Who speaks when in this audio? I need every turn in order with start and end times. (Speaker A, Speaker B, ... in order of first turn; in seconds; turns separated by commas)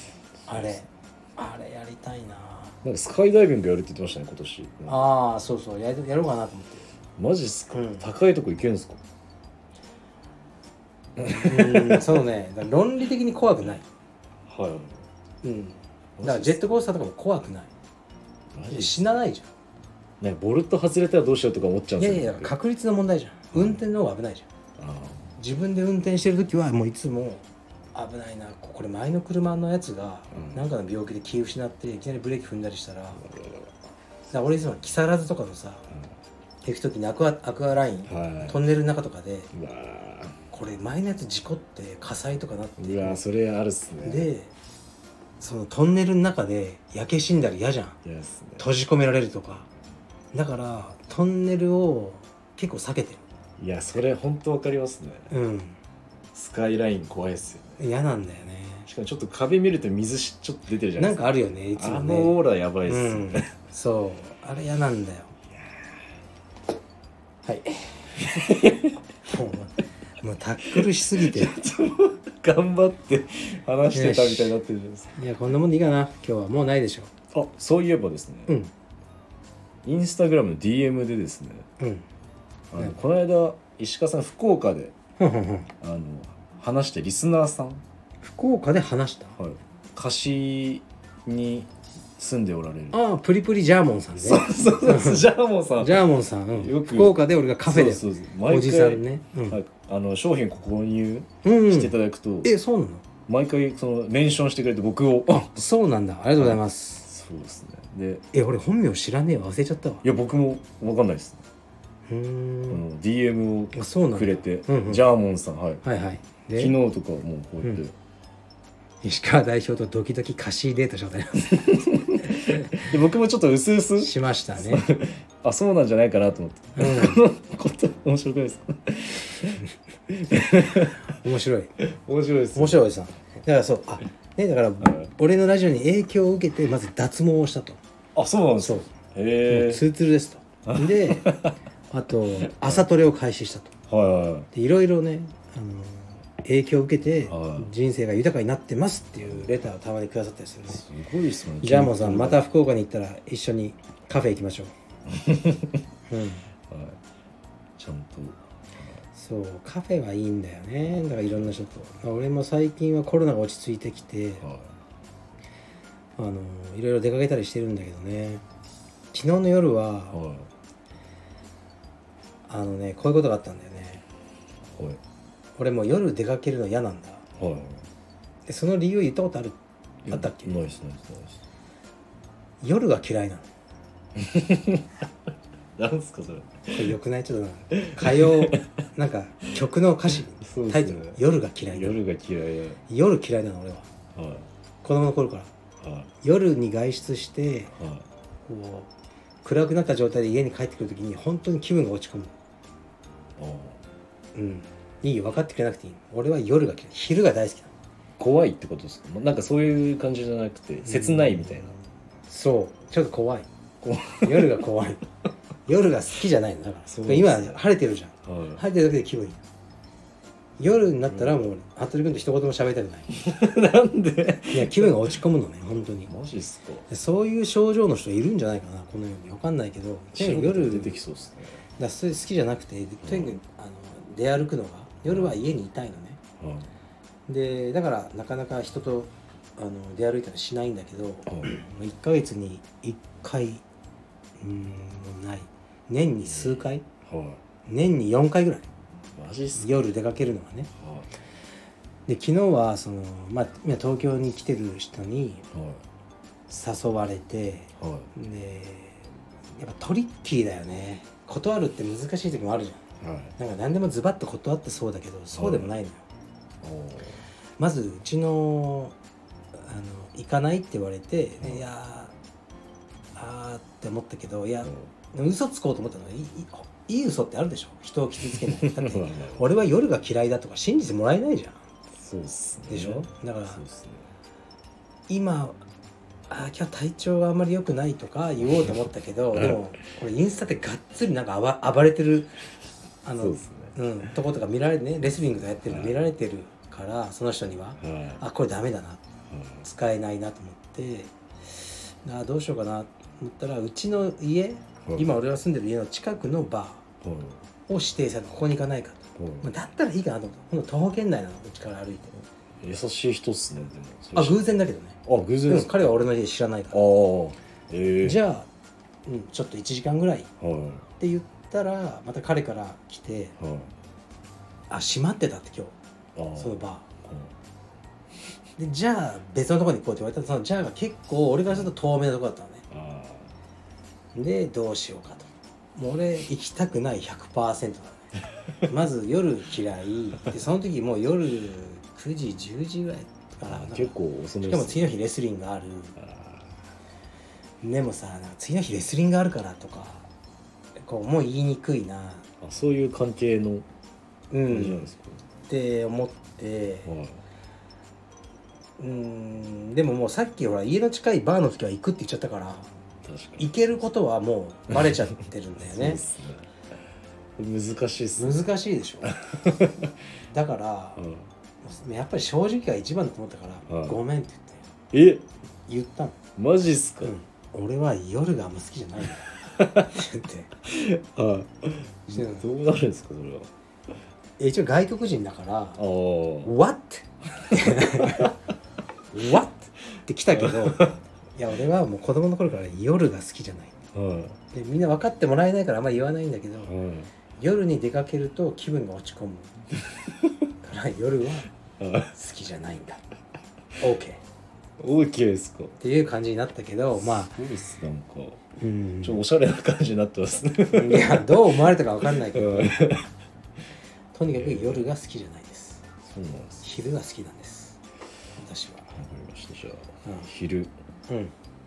Speaker A: 0.5-0.8, Speaker B: 0.5-2.8, Speaker A: 2.8-5.1, Speaker B: 4.9-6.9, Speaker A: 7.2-9.0, Speaker B: 7.7-8.1, Speaker A: 11.2-12.2, Speaker B: 11.3-13.8, Speaker A: 14.5-15.0, Speaker B: 15.4-17.7, Speaker A: 16.2-16.6, Speaker A: 18.5-19.2, Speaker B: 18.7-19.5, Speaker A: 20.2-22.5, Speaker B: 22.0-24.5, Speaker A: 23.5-23.8, Speaker A: 24.8-25.4, Speaker B: 25.4-33.2, Speaker A: 30.3-30.7, Speaker A: 33.2-33.8, Speaker B: 34.3-35.9, Speaker B: 36.6-39.5, Speaker A: 38.1-38.6, Speaker A: 39.5-40.4, Speaker B: 40.5-43.2, Speaker A: 42.8-44.3, Speaker B: 44.0-44.5, Speaker B: 45.4-48.0, Speaker A: 48.0-48.6, Speaker B: 48.6-49.7, Speaker B: 50.3-53.2, Speaker A: 53.6-55.3, Speaker B: 55.3-55.8, Speaker A: 56.3-57.8, Speaker B: 57.8-58.9, Speaker A: 58.9-63.5, Speaker B: 61.0-65.3, Speaker A: 65.5-66.0, Speaker B: 67.5-68.1, Speaker A: 68.2-69.0, Speaker B: 69.3-71.6, Speaker A: 70.7-75.2, Speaker B: 73.9-74.5, Speaker B: 75.2-77.1, Speaker A: 77.3-78.5, Speaker A: 79.8-81.7, Speaker B: 81.8-82.1, Speaker A: 82.7-84.9, Speaker B: 85.2-85.7, Speaker A: 85.8-87.8, Speaker B: 88.2-89.4, Speaker A: 89.4-93.0, Speaker B: 92.9-95.3, Speaker A: 94.2-102.5, Speaker B: 95.8-99.6, Speaker B: 101.4-103.0, Speaker A: 103.3-105.5, Speaker B: 105.3-107.1, Speaker A: 106.4-108.2, Speaker B: 108.3-110.0, Speaker A: 110.0-111.4, Speaker B: 112.1-112.8, Speaker A: 112.7-115.8, Speaker B: 113.7-115.0, Speaker B: 115.8-116.8, Speaker A: 116.6-118.0, Speaker B: 119.0-122.9, Speaker A: 121.7-131.2, Speaker B: 124.0-124.9, Speaker B: 126.8-127.2, Speaker B: 131.0-131.7, Speaker A: 131.8-132.9, Speaker B: 132.6-137.8, Speaker A: 134.8-135.1, Speaker A: 138.2-139.8, Speaker B: 138.6-138.9, Speaker B: 139.5-143.7, Speaker A: 140.7-141.6, Speaker A: 142.4-142.9, Speaker A: 143.9-144.5, Speaker B: 144.5-150.8, Speaker A: 147.2-147.7, Speaker A: 149.2-149.5, Speaker A: 150.7-152.4, Speaker B: 151.6-154.7, Speaker A: 155.1-155.8, Speaker B: 156.1-156.4, Speaker A: 156.7-157.0, Speaker A: 157.8-159.0, Speaker B: 159.2-164.4, Speaker A: 161.0-161.5, Speaker A: 164.4-164.7, Speaker B: 166.2-168.4, Speaker B: 169.1-170.2, Speaker A: 170.1-170.5, Speaker B: 172.5-174.0, Speaker A: 174.7-175.0, Speaker B: 175.6-177.2, Speaker A: 177.4-177.9, Speaker B: 178.5-179.6, Speaker A: 180.0-181.4, Speaker B: 180.1-180.6, Speaker B: 182.6-183.5, Speaker A: 184.2-185.1, Speaker A: 185.8-186.9, Speaker B: 186.7-192.0, Speaker A: 187.8-188.7, Speaker A: 190.4-192.8, Speaker B: 192.9-193.9, Speaker A: 194.2-194.5, Speaker B: 194.8-195.5, Speaker A: 195.8-196.1, Speaker B: 196.2-197.7, Speaker A: 197.8-198.1, Speaker B: 198.4-198.9, Speaker B: 199.4-202.3, Speaker A: 203.4-203.8, Speaker B: 204.3-207.7, Speaker A: 208.2-211.8, Speaker B: 210.8-211.7, Speaker B: 212.3-213.5, Speaker A: 213.8-214.7, Speaker B: 214.2-215.0, Speaker B: 215.7-219.4, Speaker A: 216.9-217.6, Speaker A: 218.2-218.6, Speaker B: 220.6-223.1, Speaker A: 221.0-221.4, Speaker A: 223.1-225.2, Speaker B: 224.5-226.1, Speaker A: 226.1-226.9, Speaker B: 226.9-231.0, Speaker A: 230.1-231.6, Speaker B: 231.8-236.2, Speaker A: 233.0-233.3, Speaker A: 235.1-235.4, Speaker A: 236.4-236.7, Speaker B: 237.3-243.6, Speaker A: 241.3-241.6, Speaker B: 244.4-246.8, Speaker A: 246.3-247.4, Speaker B: 247.7-248.7, Speaker A: 249.2-249.8, Speaker B: 249.6-250.7, Speaker A: 250.8-251.1, Speaker B: 252.1-255.4, Speaker A: 255.5-255.8, Speaker B: 256.5-259.0, Speaker A: 257.8-258.1, Speaker B: 259.6-262.9, Speaker A: 263.0-263.4, Speaker B: 263.4-266.1, Speaker A: 265.3-265.7, Speaker A: 266.6-267.2, Speaker B: 267.6-268.9, Speaker B: 269.6-272.1, Speaker B: 273.2-281.6, Speaker A: 274.6-274.9, Speaker A: 278.2-279.5, Speaker A: 281.9-284.1, Speaker B: 282.7-283.6, Speaker B: 285.1-285.6, Speaker B: 286.3-292.3, Speaker A: 289.3-289.6, Speaker B: 293.0-299.0, Speaker A: 293.2-293.8, Speaker A: 295.7-296.0, Speaker A: 297.8-298.2, Speaker A: 299.3-299.6, Speaker B: 299.6-306.9, Speaker A: 304.9-305.2, Speaker A: 307.0-307.4, Speaker B: 307.7-312.2, Speaker A: 309.2-309.5, Speaker A: 312.6-314.5, Speaker B: 314.1-316.8, Speaker A: 315.1-315.9, Speaker A: 316.7-318.2, Speaker B: 318.0-318.5, Speaker B: 319.1-320.3, Speaker A: 320.4-320.9, Speaker B: 321.0-323.4, Speaker A: 323.4-323.7, Speaker B: 324.7-325.8, Speaker A: 326.1-327.3, Speaker B: 326.4-326.9, Speaker B: 328.6-332.6, Speaker A: 332.7-333.3, Speaker B: 334.1-338.1, Speaker B: 338.6-346.0, Speaker A: 343.5-344.8, Speaker A: 346.0-346.6, Speaker B: 347.6-350.1, Speaker B: 350.8-352.2, Speaker A: 352.4-353.7, Speaker B: 354.3-354.9, Speaker A: 354.5-355.2, Speaker B: 355.5-356.9, Speaker A: 356.9-357.2, Speaker B: 358.8-362.7, Speaker A: 363.0-363.6, Speaker B: 363.4-366.0, Speaker A: 365.6-366.5, Speaker A: 367.4-368.4, Speaker B: 368.2-369.2, Speaker A: 369.1-369.9, Speaker B: 370.3-371.0, Speaker A: 371.0-371.3, Speaker B: 371.6-374.6, Speaker A: 373.7-374.0, Speaker A: 374.9-375.3, Speaker B: 375.7-376.2, Speaker A: 376.4-377.1, Speaker B: 377.0-380.5, Speaker A: 379.6-379.9, Speaker A: 380.6-383.5, Speaker B: 382.1-382.4, Speaker B: 384.4-385.8, Speaker A: 385.8-386.5, Speaker B: 386.4-388.3, Speaker A: 387.4-388.3, Speaker B: 389.1-393.8, Speaker A: 390.3-391.0, Speaker A: 393.9-394.4, Speaker B: 394.5-396.7, Speaker A: 396.6-397.1, Speaker B: 397.4-399.5, Speaker B: 400.6-401.5, Speaker A: 401.8-402.1, Speaker B: 402.1-403.0, Speaker B: 403.8-404.2, Speaker A: 404.8-405.8, Speaker B: 405.8-407.4, Speaker A: 407.0-408.4, Speaker B: 408.6-409.2, Speaker A: 409.0-411.4, Speaker B: 410.7-412.9, Speaker A: 412.0-413.1, Speaker B: 414.1-415.8, Speaker A: 414.3-414.9, Speaker A: 416.0-416.6, Speaker B: 416.6-417.8, Speaker B: 418.4-419.0, Speaker A: 418.9-420.7, Speaker B: 421.1-421.3